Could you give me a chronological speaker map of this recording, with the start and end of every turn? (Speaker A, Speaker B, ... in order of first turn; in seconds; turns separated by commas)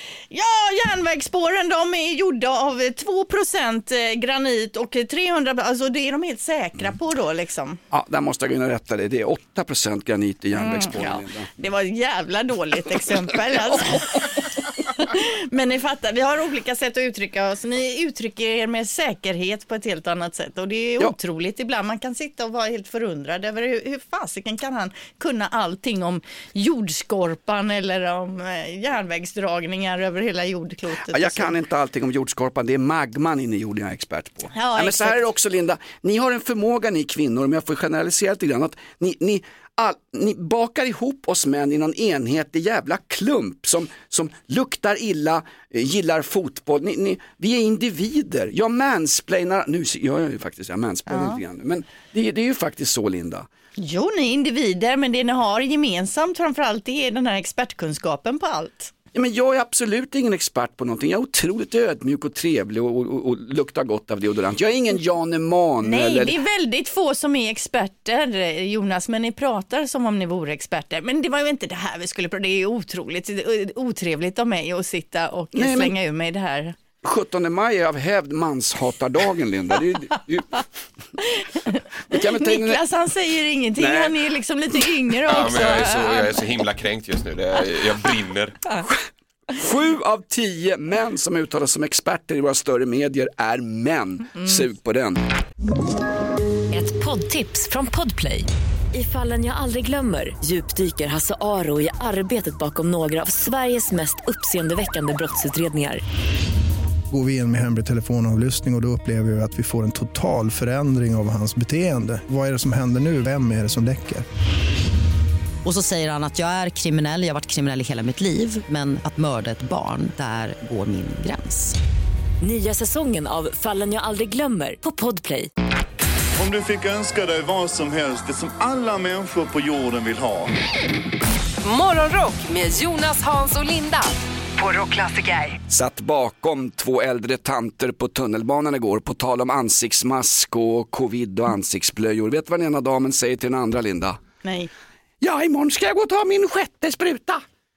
Speaker A: 0.3-7.8, Speaker B: 7.9-11.5, Speaker A: 10.6-31.5, Speaker B: 31.1-53.5, Speaker A: 34.5-35.2, Speaker A: 51.1-51.4, Speaker A: 53.8-58.9, Speaker B: 59.1-66.3, Speaker A: 65.8-76.7, Speaker B: 75.5-75.9, Speaker B: 77.0-80.6, Speaker A: 81.2-86.4, Speaker B: 82.1-82.8, Speaker B: 83.8-84.2, Speaker C: 85.3-88.6, Speaker B: 89.5-95.2, Speaker D: 96.7-106.0, Speaker E: 107.1-114.2, Speaker F: 115.6-121.8, Speaker D: 122.4-125.5, Speaker G: 126.3-130.5, Speaker H: 131.6-135.6, Speaker B: 135.7-144.2, Speaker A: 144.4-144.7, Speaker B: 145.2-147.4